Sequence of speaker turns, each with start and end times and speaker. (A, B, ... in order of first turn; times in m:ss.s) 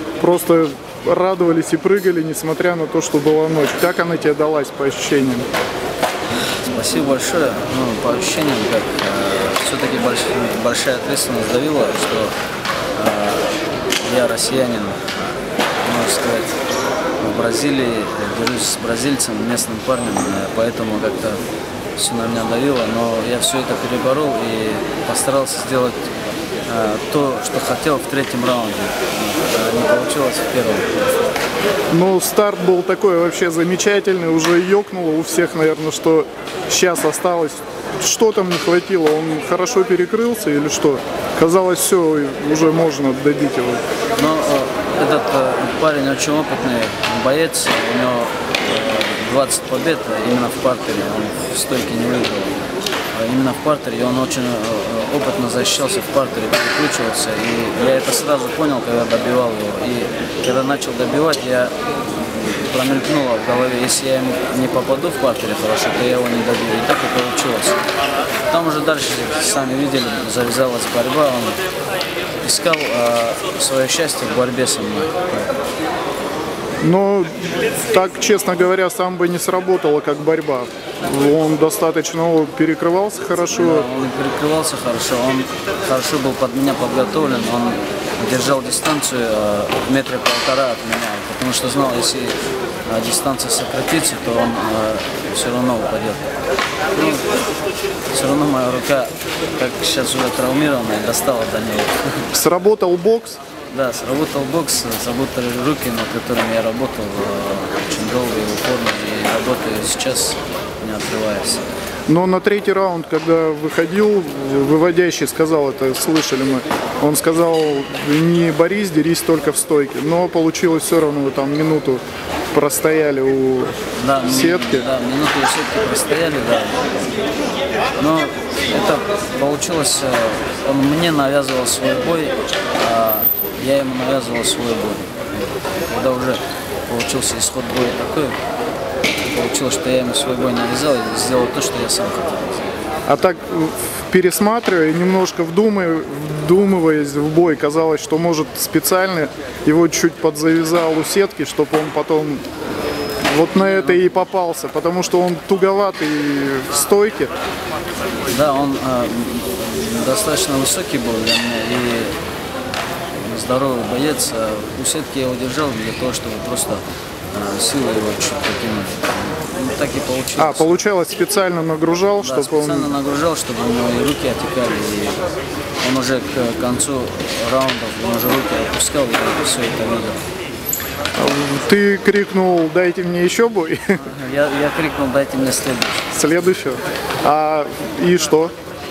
0:00.2-0:05.5 A
0:06.6-0:12.4 B
0:13.0-0:15.0 B
0:15.8-0:16.6 B
0:17.2-0:21.4 B
0:22.0-0:26.0 B
0:26.7-0:30.9 B
0:31.9-0:43.8 A
0:44.2-0:52.6 B
0:53.1-1:07.8 B
1:08.5-1:11.6 B
1:12.4-1:15.5 B
1:16.8-1:23.9 A
1:23.5-1:36.3 B
1:37.0-1:37.3 B
1:38.1-1:42.3 B
1:42.3-1:43.4 A
1:43.7-1:51.6 B
1:52.1-2:02.0 A
2:02.5-2:03.7 A
2:04.0-2:06.9 B
2:04.2-2:04.9 A
2:08.0-2:15.4 B
2:15.9-2:18.4 B
2:19.2-2:22.7 B
2:23.1-2:32.4 A
2:33.2-2:37.3 A
2:33.6-2:34.1 B
2:38.3-2:42.2 B
2:43.2-2:50.8 B
2:50.4-2:52.9 A
2:52.2-2:55.2 B
2:55.8-3:00.2 B
3:01.2-3:03.8 A
3:04.0-3:06.1 B
3:06.1-3:08.5 A